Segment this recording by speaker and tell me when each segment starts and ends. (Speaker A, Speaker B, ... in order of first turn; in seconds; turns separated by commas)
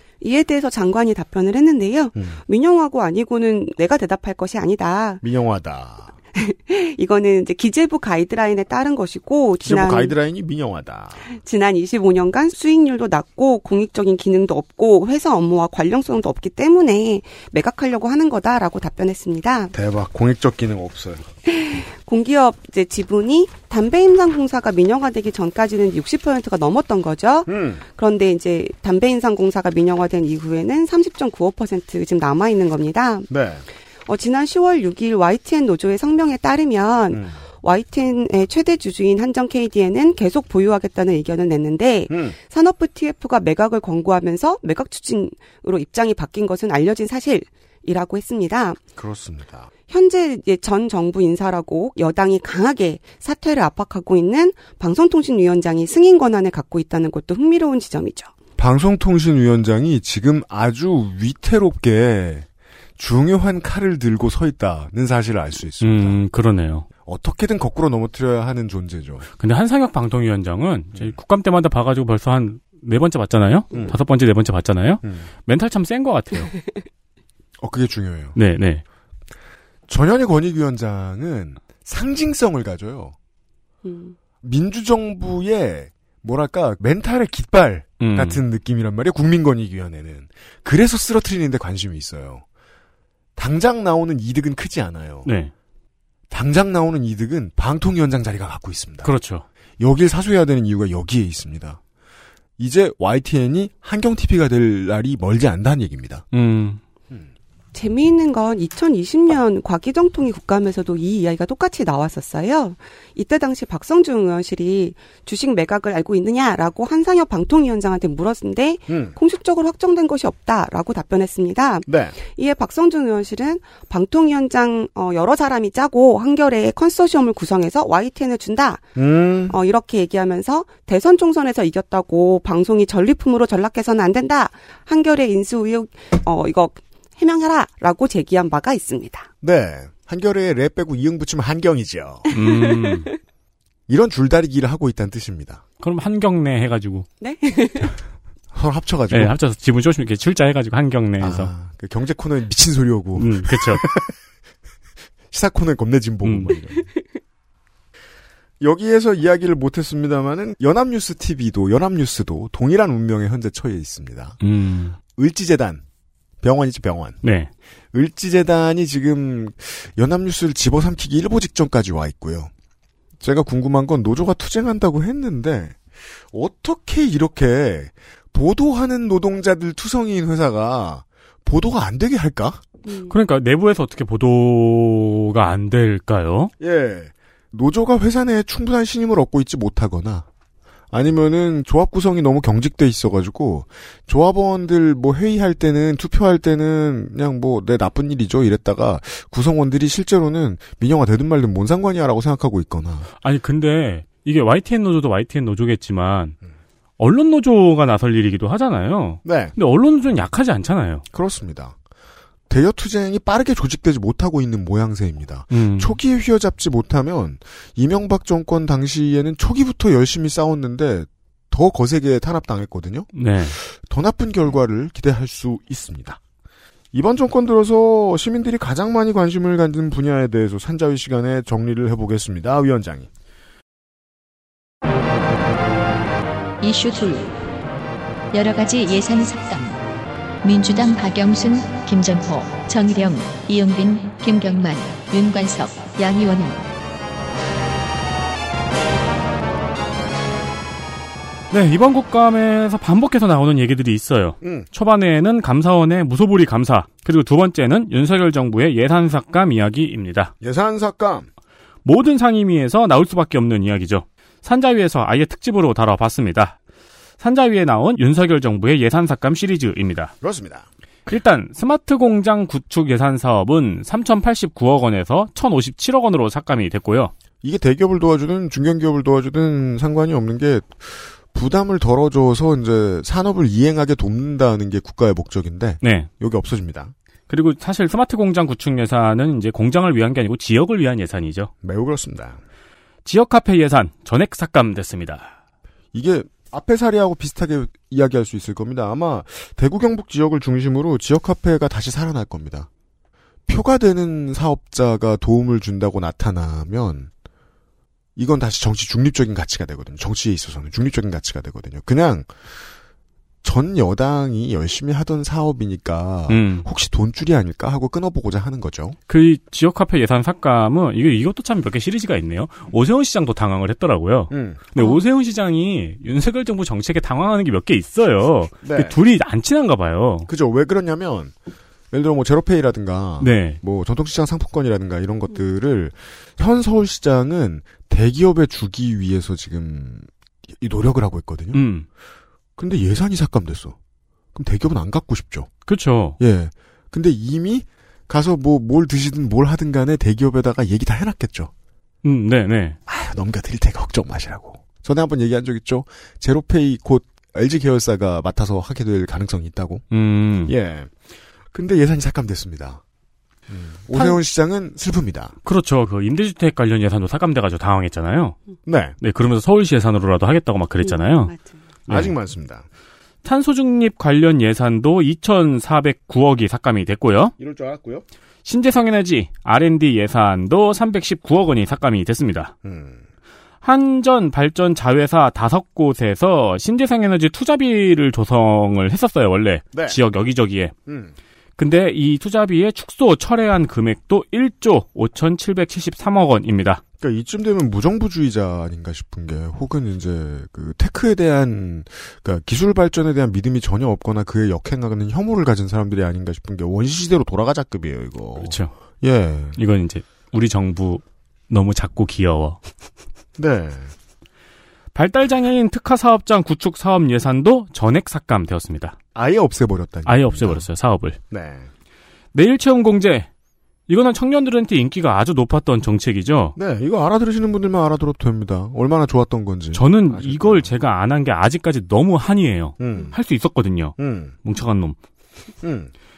Speaker A: 0.2-5.2, Speaker B: 5.2-6.1, Speaker A: 6.3-10.1, Speaker B: 9.6-11.2, Speaker A: 11.3-19.7, Speaker B: 19.7-21.2, Speaker A: 21.5-33.3, Speaker B: 27.5-27.8, Speaker B: 33.3-33.6, Speaker A: 34.1-48.8, Speaker B: 37.1-37.4, Speaker B: 42.1-42.4, Speaker B: 49.0-49.7, Speaker A: 49.9-58.3, Speaker B: 58.6-62.5, Speaker B: 63.0-66.2, Speaker C: 65.8-66.9, Speaker B: 67.1-69.3, Speaker C: 69.4-76.5, Speaker B: 77.6-78.4, Speaker C: 78.4-78.8, Speaker B: 79.9-83.2, Speaker A: 83.8-84.2, Speaker B: 84.4-92.4, Speaker C: 88.0-88.4, Speaker B: 93.4-95.3, Speaker C: 95.2-95.5, Speaker B: 96.3-99.1, Speaker C: 99.0-99.5, Speaker B: 99.8-101.8, Speaker B: 102.6-106.2, Speaker C: 106.3-106.8, Speaker A: 107.7-128.8, Speaker B: 118.9-119.2, Speaker B: 121.9-122.2, Speaker B: 129.0-129.6, Speaker A: 129.5-139.3, Speaker B: 139.4-142.3, Speaker A: 142.3-142.6, Speaker C: 142.3-143.1, Speaker B: 143.9-145.6, Speaker C: 145.8-147.1, Speaker A: 147.2-147.9, Speaker B: 148.5-149.3, Speaker C: 149.1-151.5, Speaker B: 151.2-154.1, Speaker C: 153.2-153.8, Speaker B: 155.3-156.8, Speaker C: 156.2-156.5, Speaker B: 158.6-164.4, Speaker C: 164.4-165.0, Speaker B: 165.2-165.8, Speaker B: 166.4-167.2, Speaker C: 167.2-167.5, Speaker B: 167.9-172.5, Speaker B: 173.2-182.6, Speaker A: 182.9-183.1, Speaker C: 183.1-186.5, Speaker B: 186.6-190.3, Speaker B: 190.9-203.1, Speaker C: 203.2-206.3, Speaker C: 207.0-211.0, Speaker B: 209.2-209.5, Speaker B: 211.1-211.8, Speaker B: 212.5-226.2, Speaker C: 215.5-216.0, Speaker C: 223.2-223.6, Speaker B: 226.9-233.1, Speaker D: 236.6-237.3, Speaker D: 238.3-239.8, Speaker D: 240.4-246.7, Speaker C: 251.5-260.3, Speaker B: 254.4-254.7, Speaker B: 260.4-261.3, Speaker C: 261.9-266.6, Speaker C: 267.2-270.1, Speaker B: 270.2-270.7, Speaker C: 271.1-277.1, Speaker B: 277.4-286.9, Speaker C: 285.8-286.1, Speaker C: 287.3-291.5, Speaker B: 291.6-292.4, Speaker C: 293.1-295.3, Speaker B: 295.9-302.7, Speaker B: 303.5-307.1, Speaker B: 308.2-312.3, Speaker B: 313.4-319.0, Speaker C: 316.3-316.7, Speaker C: 319.1-330.3, Speaker B: 324.3-324.6, Speaker B: 328.6-329.0, Speaker B: 330.3-331.3, Speaker B: 331.9-341.6, Speaker C: 333.2-333.6, Speaker C: 341.5-341.9, Speaker B: 342.6-343.8, Speaker B: 344.3-345.5, Speaker C: 345.7-346.2, Speaker B: 346.2-351.5, Speaker C: 352.0-352.8, Speaker B: 352.9-359.9, Speaker C: 359.9-360.5, Speaker B: 360.5-360.9, Speaker B: 361.5-362.8, Speaker B: 363.5-365.4, Speaker C: 365.4-368.4, Speaker B: 368.7-369.0, Speaker C: 369.0-371.3, Speaker A: 370.8-371.6, Speaker C: 371.9-372.1, Speaker B: 371.9-372.6, Speaker C: 373.2-377.3, Speaker B: 377.4-378.1, Speaker C: 378.4-382.5, Speaker B: 382.6-383.0, Speaker C: 383.6-390.7, Speaker B: 390.9-391.1, Speaker C: 391.6-396.8, Speaker B: 397.0-409.6, Speaker C: 408.4-408.7, Speaker C: 409.6-412.6, Speaker B: 413.4-413.9, Speaker C: 414.9-419.0, Speaker B: 419.1-420.6, Speaker C: 420.1-421.2, Speaker B: 421.3-421.7, Speaker C: 422.3-423.3, Speaker C: 423.9-426.6, Speaker B: 426.6-430.7, Speaker C: 429.7-435.0, Speaker B: 432.8-433.2, Speaker B: 434.0-434.3, Speaker B: 435.6-435.9